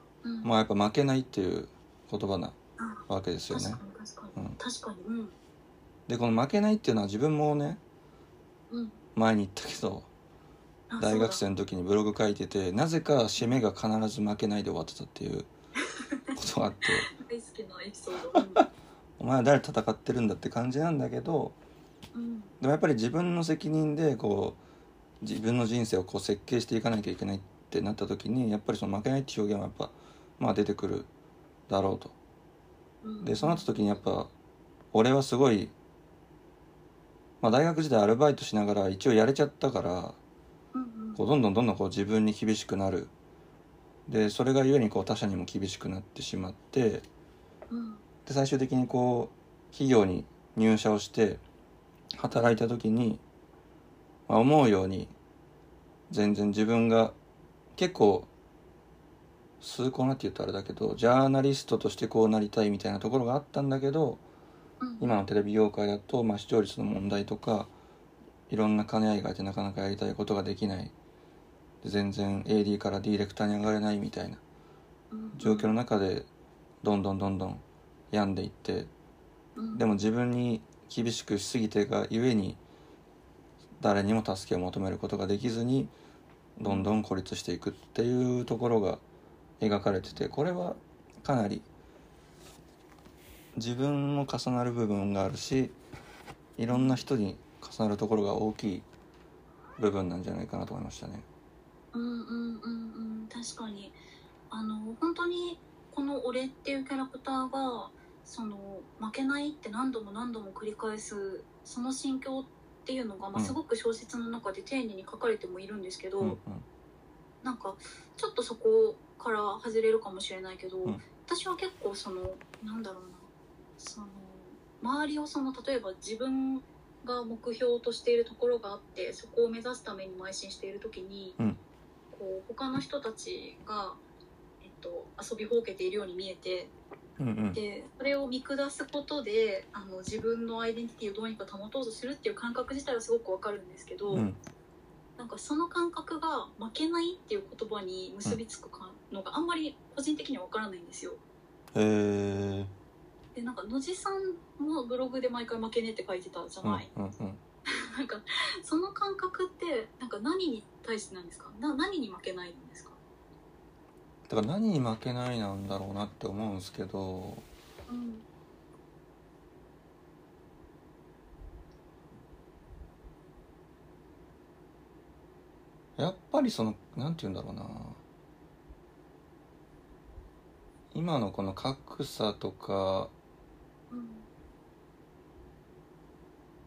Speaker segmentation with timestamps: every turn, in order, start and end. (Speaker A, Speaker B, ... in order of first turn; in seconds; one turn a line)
Speaker A: 0.2-0.5
Speaker B: 0.4-2.6
Speaker A: 2.8-5.3
Speaker B: 3.1-3.8
Speaker B: 6.1-7.8
Speaker A: 8.7-9.0
Speaker B: 9.1-10.1
Speaker A: 10.9-11.4
Speaker B: 11.0-15.5
Speaker A: 15.9-16.3
Speaker B: 16.3-17.1
Speaker A: 16.9-18.6
Speaker B: 18.3-18.6
Speaker B: 19.2-21.6
Speaker A: 22.1-22.5
Speaker B: 22.6-24.6
Speaker B: 25.2-31.1
Speaker B: 31.7-32.1
Speaker A: 33.0-33.7
Speaker B: 33.2-34.3
Speaker B: 34.9-35.7
Speaker B: 37.4-40.2
Speaker A: 40.7-41.2
Speaker B: 41.1-43.1
Speaker B: 44.1-47.0
Speaker A: 47.7-48.0
Speaker B: 48.2-51.4
Speaker B: 52.1-53.2
Speaker A: 52.3-52.6
Speaker B: 54.3-55.1
Speaker B: 56.1-57.1
Speaker B: 57.7-58.3
Speaker B: 59.6-64.2
Speaker A: 64.8-65.2
Speaker B: 65.0-67.7
Speaker B: 68.5-70.9
Speaker B: 71.8-74.4
Speaker A: 75.1-75.7
Speaker B: 75.3-76.3
Speaker B: 76.8-78.9
Speaker A: 79.5-79.8
Speaker B: 79.7-82.6
Speaker B: 83.8-85.9
Speaker B: 86.6-89.0
Speaker A: 86.6-86.9
Speaker B: 89.6-91.7
Speaker B: 93.5-95.8
Speaker B: 96.6-98.8
Speaker A: 96.7-97.0
Speaker B: 99.8-101.2
Speaker A: 101.9-104.0
Speaker A: 104.5-116.4
Speaker B: 116.2-116.6
Speaker A: 117.4-131.4
Speaker A: 132.1-134.0
Speaker A: 134.6-136.7
Speaker B: 137.2-137.6
Speaker A: 137.5-144.2
Speaker B: 144.1-144.4
Speaker A: 145.2-151.2
Speaker B: 151.7-152.7
Speaker A: 153.3-156.9
Speaker B: 156.6-157.4
Speaker A: 157.7-163.0
Speaker B: 164.3-167.4
Speaker A: 167.9-168.2
Speaker B: 176.0-178.0
Speaker B: 180.9-183.1
Speaker A: 183.9-184.3